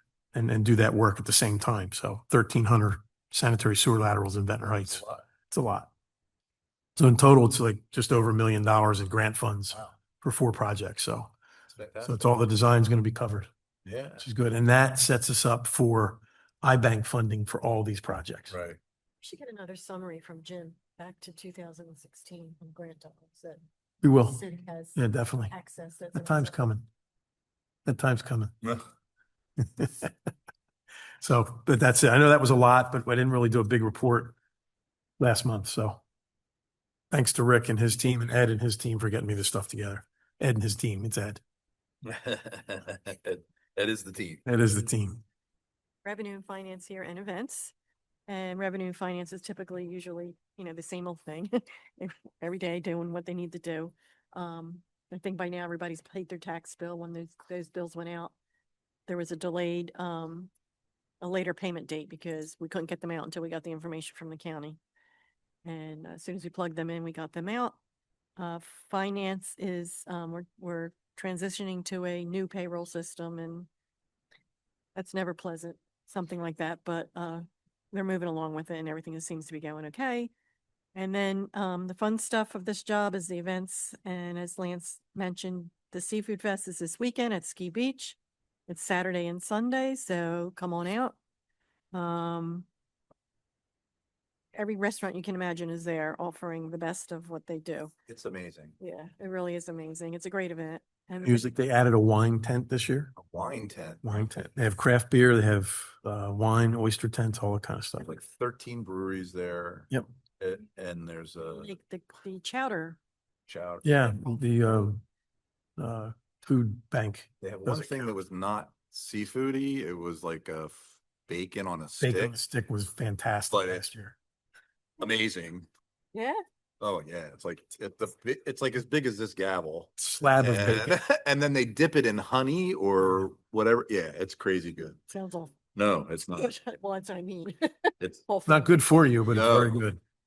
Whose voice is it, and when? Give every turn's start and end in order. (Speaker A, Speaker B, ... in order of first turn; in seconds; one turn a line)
Speaker A: 0.3-5.9
Speaker B: 4.9-5.2
Speaker A: 7.0-11.3
Speaker B: 11.8-12.2
Speaker A: 12.0-13.5
Speaker B: 13.9-14.2
Speaker A: 14.2-18.6
Speaker B: 18.5-18.8
Speaker C: 19.2-23.6
Speaker A: 24.0-24.4
Speaker C: 24.2-25.0
Speaker A: 25.0-25.5
Speaker C: 25.5-26.6
Speaker A: 26.1-26.9
Speaker A: 27.9-28.6
Speaker A: 29.6-30.1
Speaker A: 31.2-34.4
Speaker A: 35.2-36.0
Speaker A: 37.1-41.4
Speaker B: 42.0-44.4
Speaker A: 44.5-45.2
Speaker C: 46.0-47.7
Speaker C: 48.3-58.3
Speaker C: 59.1-60.5
Speaker C: 61.2-64.8
Speaker C: 65.7-67.8
Speaker C: 68.4-73.7
Speaker C: 75.0-80.3
Speaker C: 81.0-88.2
Speaker C: 88.7-91.2
Speaker C: 91.9-92.7
Speaker C: 94.5-97.9
Speaker B: 98.1-98.8
Speaker C: 98.8-101.5
Speaker A: 101.2-103.1
Speaker B: 103.2-104.3
Speaker A: 104.0-108.2
Speaker B: 108.0-111.7
Speaker C: 111.5-113.0
Speaker B: 113.5-114.2
Speaker A: 113.8-115.0
Speaker A: 115.8-118.1
Speaker B: 117.4-122.4
Speaker A: 122.0-124.2
Speaker B: 123.5-123.8
Speaker B: 125.0-125.7
Speaker C: 126.1-126.4
Speaker B: 126.8-135.0
Speaker A: 130.0-131.0
Speaker C: 135.1-135.6
Speaker B: 135.8-136.5
Speaker C: 136.3-138.9
Speaker A: 138.5-140.0
Speaker B: 139.2-139.8